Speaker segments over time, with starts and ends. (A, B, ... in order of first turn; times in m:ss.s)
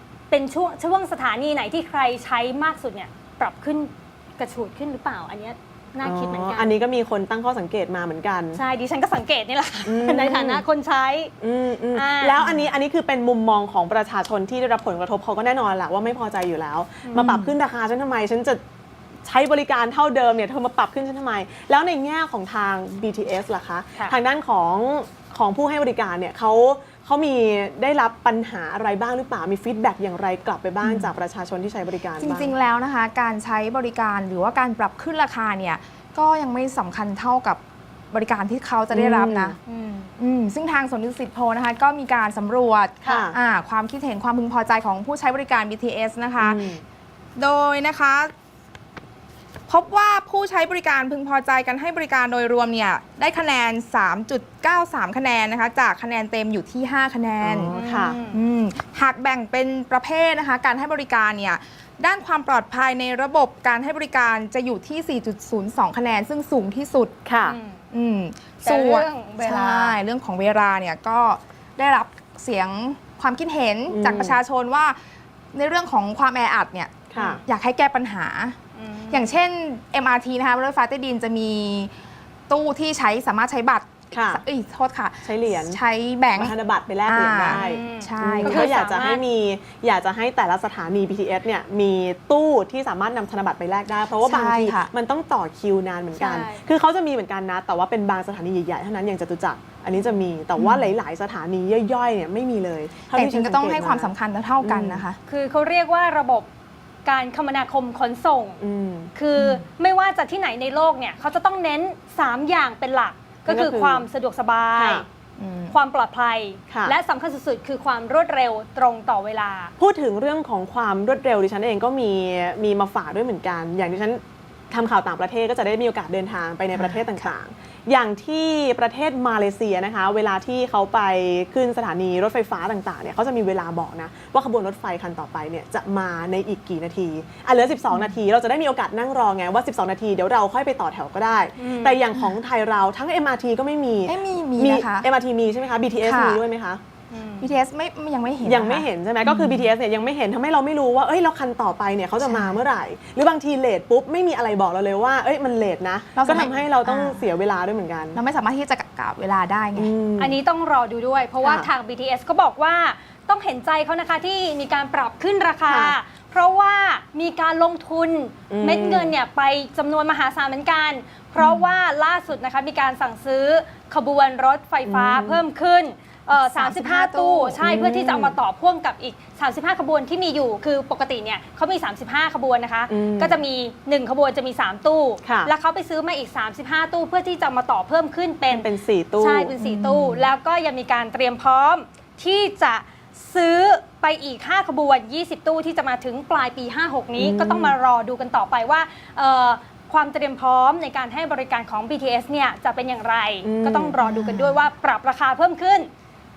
0:00.3-0:06.7 A
0:06.0-0:08.6 B
0:08.5-0:11.3 A
0:09.8-0:10.6 B
0:11.4-0:18.6 B
0:11.9-0:12.4 A
0:12.4-0:12.7 C
0:17.1-0:17.5 A
0:19.2-0:32.5 B
0:30.8-0:31.1 C
0:32.2-0:37.6 C
0:38.1-0:39.6 C
0:38.9-0:39.6 B
0:39.6-0:40.1 A
0:40.2-0:46.6 C
0:43.0-0:43.4 B
0:46.4-0:46.8 B
0:47.4-0:48.3 C
0:49.7-0:57.8 C
0:57.4-0:58.2 B
0:57.7-0:58.4 A
0:58.3-1:07.2 C
1:07.2-1:07.6 B
1:07.4-1:07.8 A
1:07.9-1:15.0 C
1:08.6-1:10.0 A
1:13.9-1:14.4 B
1:15.5-1:18.6 C
1:17.1-1:17.4 B
1:18.7-1:19.4 A
1:19.1-1:21.9 C
1:22.5-1:26.5 C
1:24.1-1:24.4 B
1:25.2-1:25.8 B
1:26.4-1:45.0 B
1:27.0-1:28.7 C
1:27.5-1:29.2 A
1:34.2-1:34.9 C
1:36.2-1:36.6 A
1:40.6-1:40.9 C
1:43.1-1:45.2 C
1:45.3-1:46.5 A
1:47.0-1:48.6 A
1:48.6-1:49.1 B
1:49.1-1:55.0 A
1:49.4-1:49.6 C
1:53.5-1:54.1 B
1:54.8-1:55.0 B
1:55.4-1:55.7 C
1:55.7-1:59.7 A
1:56.7-1:56.9 B
1:59.8-2:26.8 B
2:06.7-2:07.3 C
2:21.6-2:22.0 A
2:24.0-2:25.1 C
2:26.0-2:26.4 C
2:27.1-2:27.5 A
2:27.4-2:29.6 C
2:28.4-2:38.2 B
2:32.2-2:32.6 C
2:36.1-2:37.2 C
2:38.1-2:39.9 C
2:39.8-2:40.3 B
2:40.2-3:08.7 A
2:41.4-2:41.7 B
2:45.7-2:46.0 B
2:48.5-2:49.1 B
2:54.8-2:55.4 B
2:56.3-2:57.6 C
2:57.6-2:58.4 B
3:02.9-3:03.4 B
3:05.2-3:05.5 B
3:08.5-3:09.6 B
3:09.2-3:25.9 A
3:09.6-3:10.2 C
3:17.2-3:17.8 B
3:23.4-3:24.0 B
3:24.0-3:24.6 C